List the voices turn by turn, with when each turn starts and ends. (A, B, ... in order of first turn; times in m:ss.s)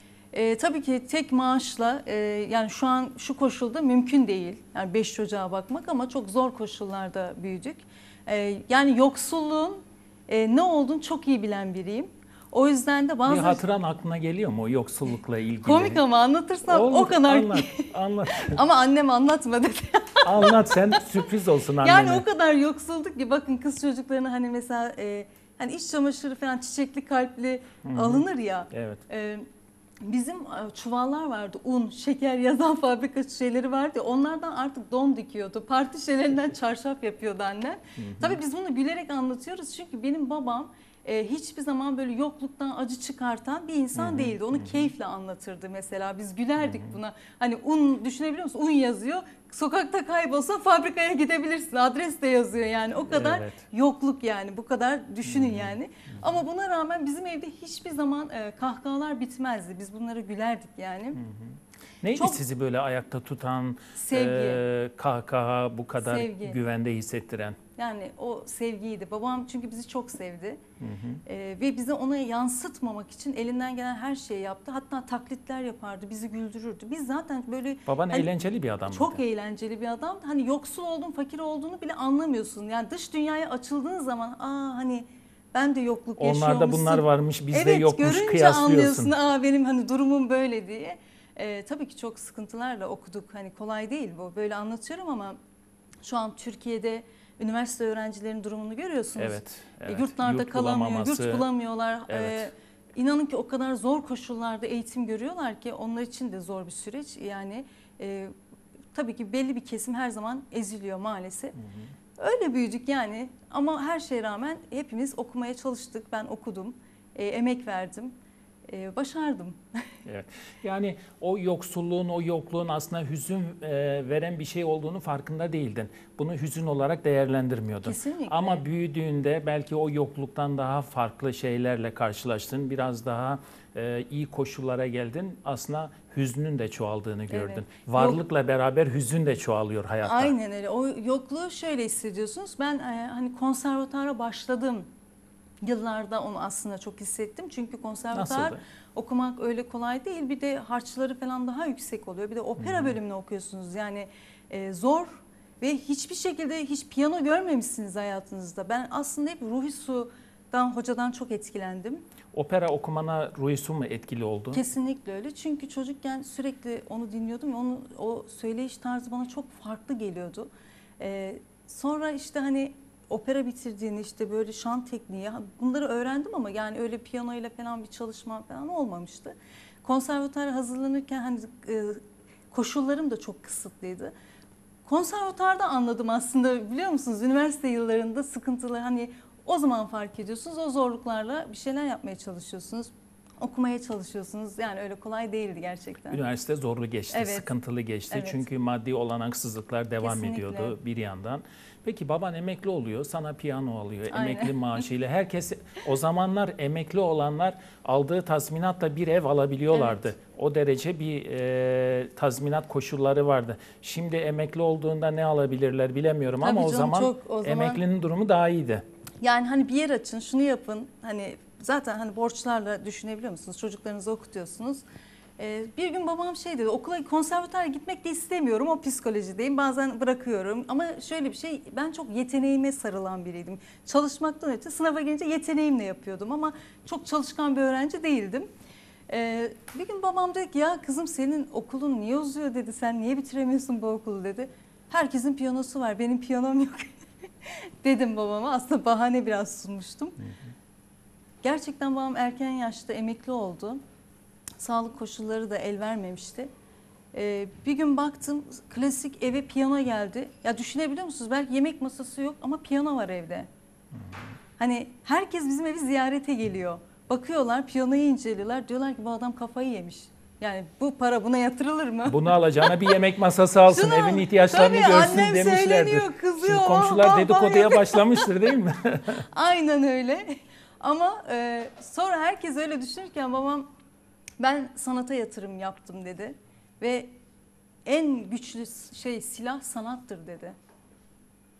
0:00.3-0:13.6 A
0:13.2-0:16.0 B
0:15.6-0:21.0 A
0:16.6-0:18.6 B
0:20.2-0:22.2 B
0:21.8-0:29.4 A
0:27.8-0:29.0 B
0:30.0-1:01.2 A
0:38.0-0:38.4 B
0:43.9-0:44.9 B
0:46.6-0:46.9 B
0:53.0-0:53.6 B
0:55.2-0:55.8 B
1:01.1-1:07.6 B
1:02.1-1:02.4 A
1:03.9-1:04.6 A
1:06.0-1:06.6 A
1:07.8-1:10.6 A
1:10.8-1:11.2 B
1:11.2-1:18.3 A
1:17.8-1:19.2 B
1:18.9-1:35.4 A
1:26.2-1:29.1 B
1:36.0-1:48.3 A
1:39.2-1:41.5 B
1:42.1-1:42.5 B
1:48.9-1:51.5 A
1:51.6-1:51.9 B
1:52.2-1:58.2 A
1:58.7-1:59.6 A
2:00.0-2:20.3 B
2:07.8-2:08.6 A
2:17.3-2:18.2 A
2:20.0-2:24.9 A
2:25.6-2:42.0 A
2:28.1-2:28.6 B
2:32.6-2:32.9 B
2:42.3-2:44.6 B
2:44.5-3:02.0 A
3:02.5-3:04.1 A
3:04.8-3:16.2 A
3:16.1-3:38.8 B
3:17.1-3:17.5 A
3:18.1-3:18.4 A
3:20.0-3:20.7 A
3:24.1-3:24.8 A
3:29.7-3:30.0 A
3:36.4-3:37.8 A
3:39.2-3:44.8 A
3:45.4-3:58.5 A
3:59.1-4:06.9 A
4:07.8-4:10.2 A
4:11.4-4:13.8 A
4:14.6-4:16.5 A
4:17.1-4:23.5 A
4:24.6-4:33.0 A
4:32.0-4:39.1 B
4:33.7-4:38.3 A
4:39.3-4:43.7 A
4:44.4-4:47.1 A
4:47.8-4:50.5 A